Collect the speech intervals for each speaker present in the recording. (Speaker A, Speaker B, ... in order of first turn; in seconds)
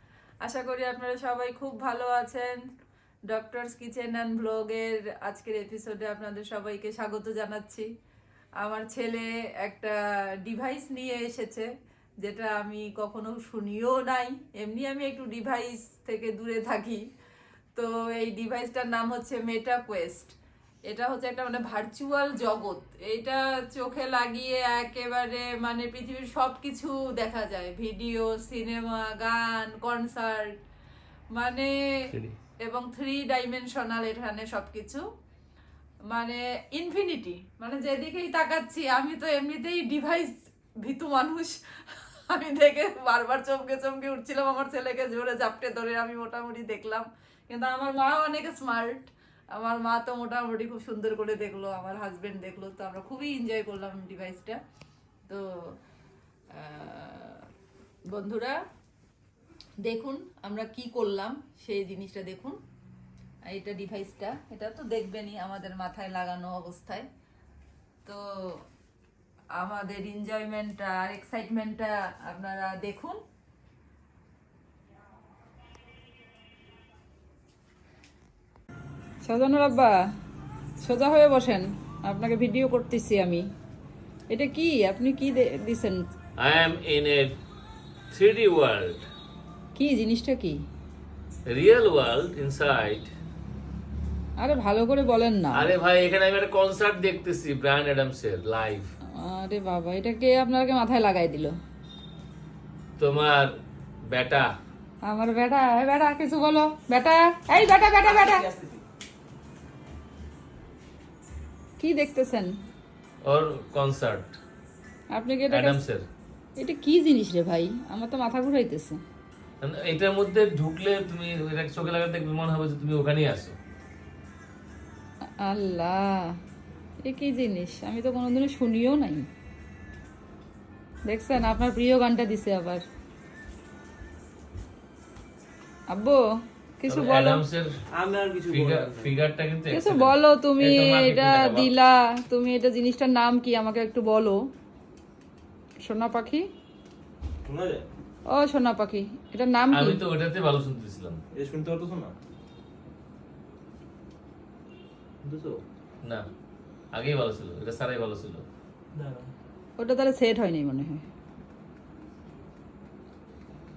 Speaker A: 0.4-2.6, 3.3-7.9, 8.6-11.7, 12.2-17.0, 17.8-20.3, 20.9-30.6, 31.3-32.1, 32.6-35.0, 36.1-41.6, 42.3-54.6, 56.5-57.5, 58.1-58.6, 59.8-62.6, 63.5-67.1, 68.1-68.6, 69.6-73.2, 79.2-80.0, 80.8-83.5, 84.3-86.1, 89.7-90.6, 94.4-95.7, 99.1-101.5, 105.1-108.5, 111.8-112.5, 115.1-115.8, 116.6-119.0, 125.4-126.2, 127.0-129.3, 131.1-132.8, 135.9-136.2, 136.8-137.4, 139.7-144.4, 145.8-146.5, 148.3-150.0, 159.8-161.0
Speaker B: 32.1-32.4, 86.4-87.3, 88.1-89.1, 91.5-93.1, 95.5-98.9, 103.0-103.5, 104.1-104.5, 113.2-114.4, 115.5-116.1, 119.6-123.5, 136.9-137.7, 138.5-141.7, 149.7-151.2, 156.9-158.4
Speaker C: 108.0-108.8, 137.9-139.2, 147.4-147.8, 151.3-152.1, 155.2-155.6, 158.9-159.3